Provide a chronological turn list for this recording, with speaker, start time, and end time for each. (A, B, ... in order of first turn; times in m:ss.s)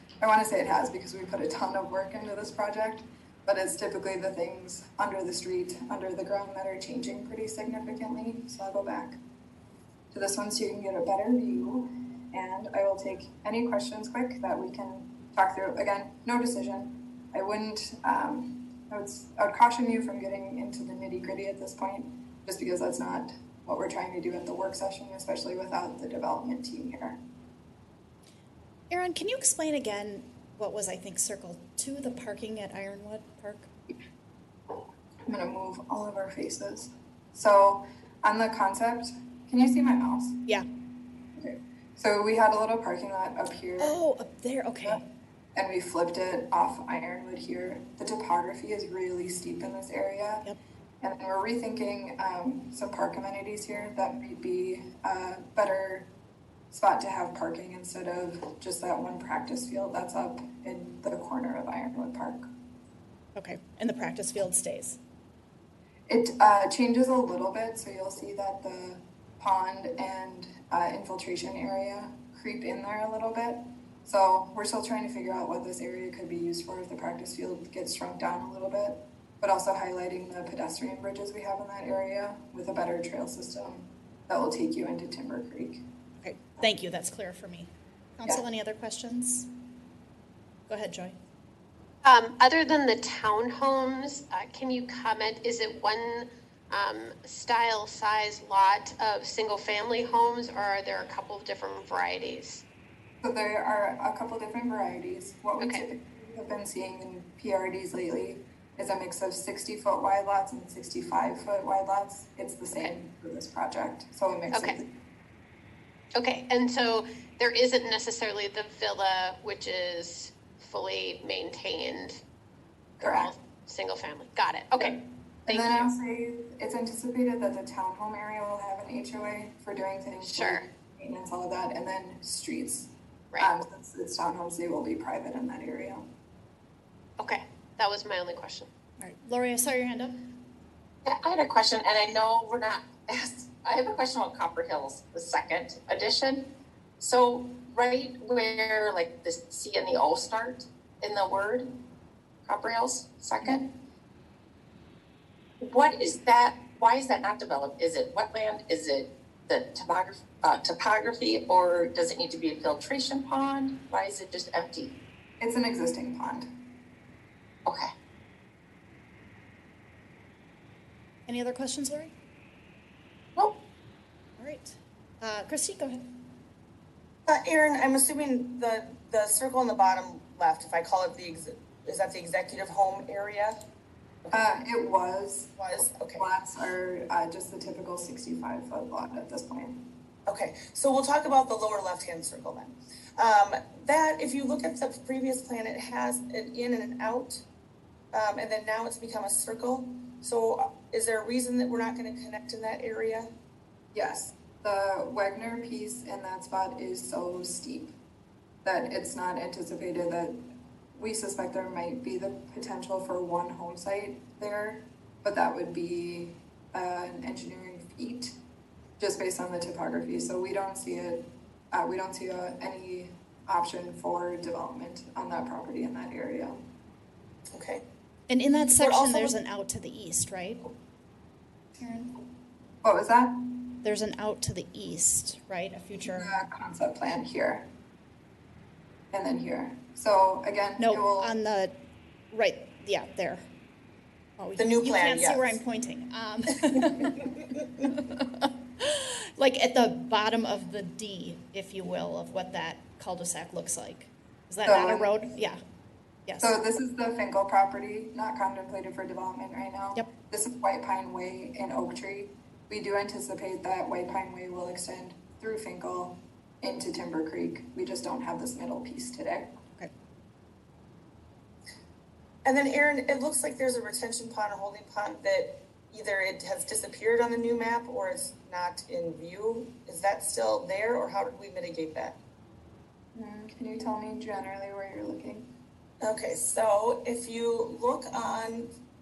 0:00.2-0:09.2 A
0:10.1-0:27.2 A
0:28.9-0:33.7 B
0:35.3-0:40.4 A
0:41.4-0:44.0 A
0:43.8-0:45.0 B
0:45.5-0:50.5 A
0:51.0-0:56.1 A
0:56.7-1:02.4 A
1:03.3-1:05.0 B
1:06.1-1:25.8 A
1:26.2-1:29.5 B
1:30.7-1:31.2 B
1:32.0-1:42.6 C
1:43.2-1:54.9 A
1:45.6-1:45.8 C
1:54.5-1:54.8 C
1:56.2-2:02.2 C
2:03.0-2:05.9 C
2:03.0-2:03.3 A
2:04.8-2:16.1 A
2:10.2-2:10.6 C
2:17.2-2:18.7 C
2:19.0-2:20.3 B
2:21.0-2:26.5 D
2:27.0-2:31.7 D
2:32.4-2:33.7 D
2:35.6-2:44.9 D
2:45.4-2:46.5 A
2:47.7-2:47.9 D
2:51.3-2:52.1 B
2:54.4-2:56.2 B
2:57.3-3:03.6 E
3:04.3-3:05.6 A
3:05.6-3:06.2 E
3:06.1-3:09.8 A
3:10.3-3:17.4 E
3:18.1-3:23.3 E
3:23.9-3:27.9 A
3:28.6-3:38.4 A
3:39.0-3:46.6 A
3:47.5-3:47.8 E
3:48.3-3:50.7 B
3:48.8-3:49.3 E
3:51.8-3:52.1 B
3:52.8-3:53.6 A
3:53.8-3:56.3 B
3:56.1-3:57.7 A
3:59.1-4:01.3 A
4:00.8-4:01.8 B
4:02.3-4:03.5 B
4:04.4-4:15.6 B
4:04.6-4:05.6 E
4:14.6-4:15.1 A
4:16.3-4:16.6 B
4:16.4-4:29.5 A
4:32.4-4:42.2 E
4:43.1-4:45.5 A
4:46.0-4:48.7 E